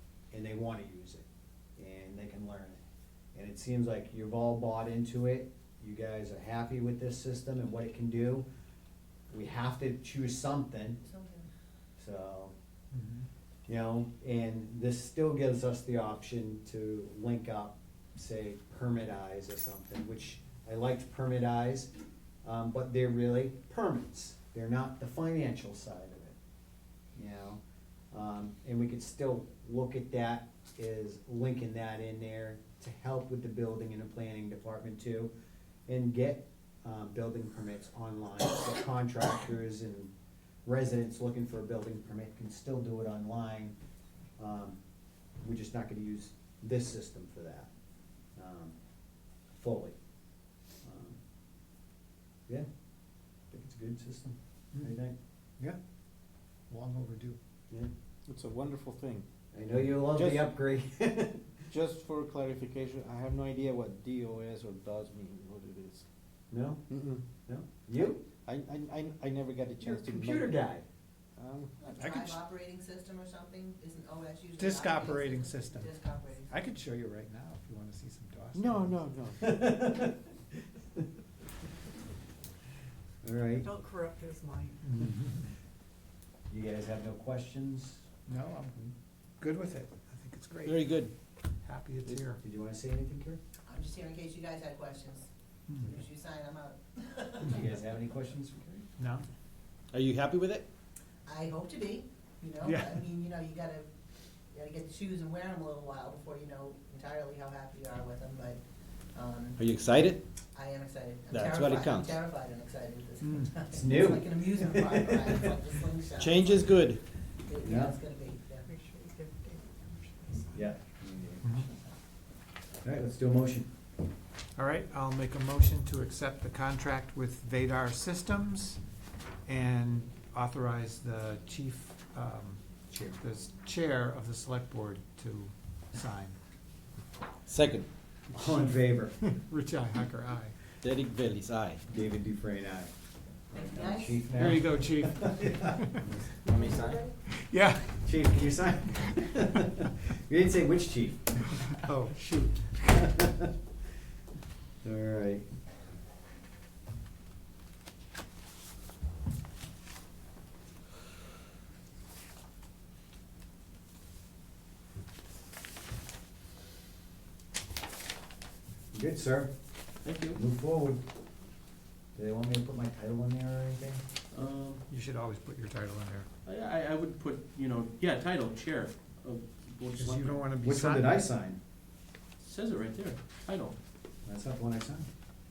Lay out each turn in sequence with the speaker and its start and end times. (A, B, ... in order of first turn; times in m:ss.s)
0:00.3-0:01.2 A
0:01.8-0:02.8 A
0:03.4-0:08.5 A
0:09.3-0:11.0 A
0:11.0-0:11.5 B
0:12.0-0:12.5 A
0:12.9-0:13.3 C
0:13.7-0:21.9 A
0:22.4-0:26.4 A
0:27.2-0:27.6 A
0:28.1-0:35.3 A
0:35.9-0:40.1 A
0:40.6-0:43.7 A
0:44.4-0:44.8 A
0:45.4-0:47.7 A
0:48.4-0:48.8 A
0:49.5-0:50.0 A
0:50.8-0:51.2 A
0:53.5-0:55.1 A
0:56.7-0:57.4 C
0:58.3-0:59.3 D
0:59.5-1:01.6 A
1:00.1-1:00.5 D
1:01.7-1:06.1 D
1:06.5-1:06.8 A
1:06.9-1:07.2 D
1:07.5-1:08.2 A
1:08.4-1:10.6 D
1:09.8-1:10.8 A
1:11.4-1:11.9 D
1:11.8-1:16.5 B
1:12.0-1:12.4 C
1:14.6-1:15.9 C
1:16.5-1:19.0 C
1:18.6-1:19.8 D
1:19.4-1:20.2 A
1:23.2-1:23.7 A
1:23.6-1:24.8 E
1:24.8-1:25.5 C
1:26.5-1:28.0 A
1:28.3-1:30.9 C
1:30.6-1:31.1 D
1:31.6-1:32.4 C
1:32.4-1:33.4 A
1:33.7-1:35.3 B
1:35.8-1:37.7 B
1:37.4-1:38.9 A
1:39.0-1:39.2 C
1:39.9-1:40.7 D
1:41.3-1:43.9 B
1:42.6-1:43.0 C
1:44.5-1:49.6 B
1:49.6-1:50.2 D
1:50.5-1:56.7 B
1:51.3-1:52.2 D
1:53.2-1:53.5 C
1:53.7-1:55.5 A
1:56.2-1:57.0 D
1:57.4-1:58.7 B
1:57.6-1:58.0 A
1:58.7-2:00.6 E
2:00.5-2:01.8 A
2:01.4-2:01.7 C
2:02.8-2:03.7 A
2:04.6-2:08.8 C
2:09.5-2:12.6 C
2:12.9-2:13.2 A
2:13.2-2:16.4 C
2:17.5-2:17.9 D
2:18.3-2:19.2 A
2:18.4-2:20.6 C
2:20.8-2:21.8 D
2:21.9-2:22.9 A
2:23.5-2:26.4 A
2:23.5-2:24.3 B
2:24.3-2:26.1 C
2:26.5-2:27.0 D
2:26.5-2:27.1 B
2:27.3-2:28.2 C
2:28.0-2:31.4 A
2:31.8-2:32.8 C
2:32.9-2:33.5 A
2:34.8-2:35.5 A
2:48.9-2:49.5 A
2:50.0-2:50.4 F
2:50.3-2:51.0 A
2:52.2-2:54.0 A
2:54.3-2:54.8 F
2:54.9-2:56.3 C
2:56.4-3:00.4 F
3:00.0-3:01.2 C
3:00.6-3:01.6 A
3:02.4-3:03.8 F
3:04.2-3:05.1 A